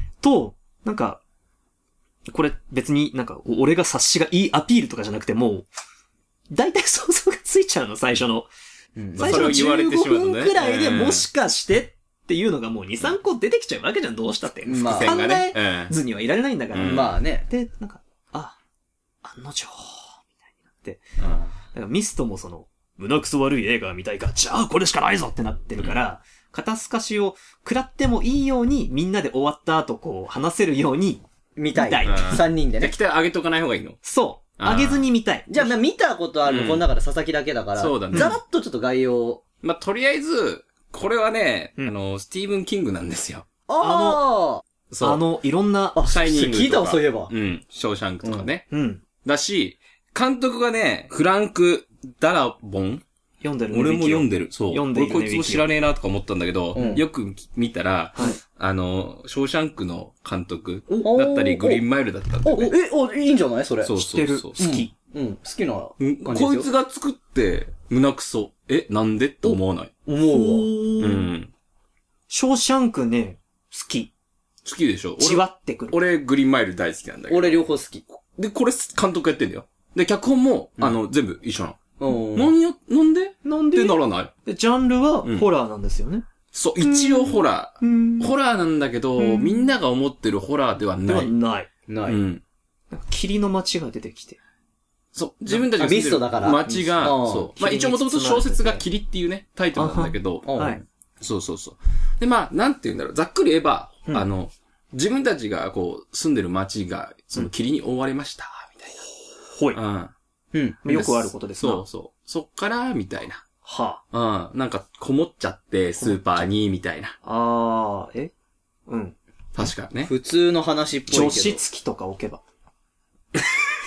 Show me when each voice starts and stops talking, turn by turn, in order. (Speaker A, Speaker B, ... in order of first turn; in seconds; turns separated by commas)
Speaker A: 0.2-1.2, Speaker A: 2.3-5.7, Speaker A: 6.5-8.5, Speaker B: 9.0-9.6, Speaker C: 9.2-11.3, Speaker A: 9.2-18.6, Speaker B: 14.7-15.2, Speaker C: 14.8-15.9, Speaker C: 16.7-17.2, Speaker B: 16.8-17.5, Speaker A: 19.2-21.1, Speaker C: 21.2-21.5, Speaker A: 21.7-31.2, Speaker B: 31.6-33.0, Speaker A: 31.7-32.4, Speaker C: 32.0-34.0, Speaker A: 34.0-35.7, Speaker C: 34.6-35.1, Speaker B: 35.5-39.4, Speaker C: 36.5-36.9, Speaker C: 37.8-38.4, Speaker C: 39.6-43.5, Speaker B: 43.7-44.6, Speaker A: 43.8-44.2, Speaker C: 44.9-45.2, Speaker A: 45.0-46.0, Speaker B: 46.0-47.3, Speaker C: 46.0-48.7, Speaker A: 48.7-49.0, Speaker C: 49.2-53.0, Speaker A: 53.4-55.7, Speaker C: 53.7-62.7, Speaker B: 56.8-57.0, Speaker A: 60.9-61.1, Speaker B: 61.0-61.8, Speaker B: 62.5-63.9, Speaker C: 63.8-64.7, Speaker A: 63.9-64.9, Speaker B: 64.6-66.7, Speaker C: 66.0-69.9, Speaker B: 69.4-70.7, Speaker A: 70.2-71.3, Speaker C: 71.0-71.5, Speaker A: 72.3-74.1, Speaker C: 74.6-77.6, Speaker A: 75.2-76.0, Speaker B: 77.3-78.0, Speaker C: 78.3-81.8, Speaker B: 82.0-82.5, Speaker C: 82.3-84.3, Speaker A: 83.4-86.2, Speaker C: 86.5-91.3, Speaker A: 86.8-88.3, Speaker A: 89.2-89.7, Speaker A: 91.0-91.7, Speaker B: 91.9-92.2, Speaker C: 92.0-92.4, Speaker A: 92.9-94.4, Speaker C: 95.1-100.5, Speaker B: 95.8-97.5, Speaker A: 97.6-98.8, Speaker A: 99.8-100.8, Speaker B: 100.5-100.8, Speaker C: 101.2-109.1, Speaker A: 109.3-109.8, Speaker C: 109.7-110.1, Speaker B: 110.5-110.8, Speaker C: 110.8-113.4, Speaker A: 110.8-111.8, Speaker A: 113.7-114.0, Speaker C: 114.1-117.2, Speaker A: 117.2-118.3, Speaker A: 118.9-119.2, Speaker C: 119.5-120.1, Speaker B: 120.0-121.6, Speaker A: 121.1-122.4